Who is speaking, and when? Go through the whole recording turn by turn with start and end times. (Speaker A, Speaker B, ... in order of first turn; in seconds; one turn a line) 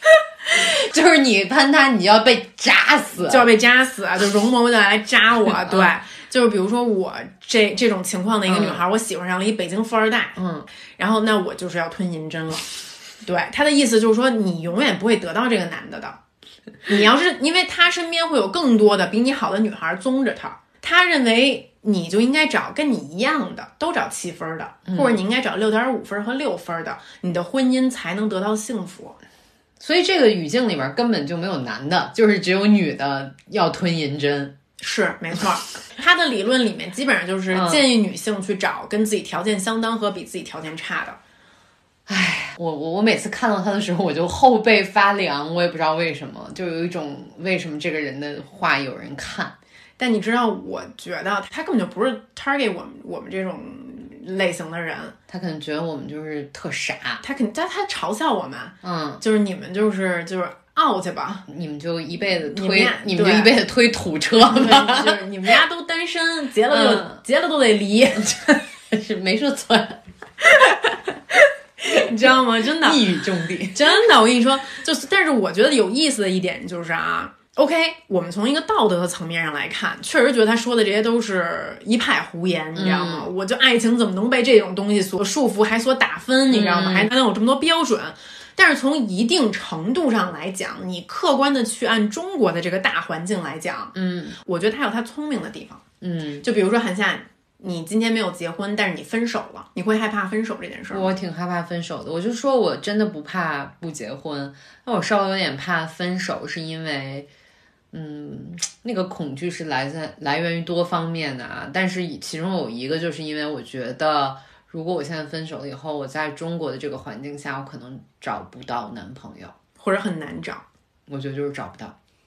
Speaker A: 0.6-3.5
Speaker B: 3.2-10.4
Speaker A: 5.7-5.9
Speaker A: 8.5-8.8
Speaker A: 10.4-10.7
Speaker B: 11.0-12.7
Speaker B: 13.2-16.2
Speaker B: 16.9-29.2
Speaker A: 24.9-25.2
Speaker A: 29.8-34.5
Speaker B: 34.8-41.2
Speaker A: 37.5-37.9
Speaker A: 42.1-49.5
Speaker B: 50.0-55.1
Speaker A: 55.3-57.2
Speaker B: 57.2-61.5
Speaker A: 58.8-59.2
Speaker A: 61.5-65.2
Speaker B: 62.5-63.5
Speaker B: 64.5-68.6
Speaker A: 66.7-67.2
Speaker A: 68.9-70.0
Speaker B: 70.5-71.0
Speaker B: 71.8-73.0
Speaker A: 72.8-73.8
Speaker B: 73.7-95.8
Speaker A: 82.8-83.3
Speaker A: 86.5-87.1
Speaker A: 93.9-94.4
Speaker A: 96.0-96.5
Speaker B: 96.4-101.1
Speaker A: 100.9-107.3
Speaker A: 107.9-119.5
Speaker B: 119.8-120.6
Speaker A: 121.1-122.0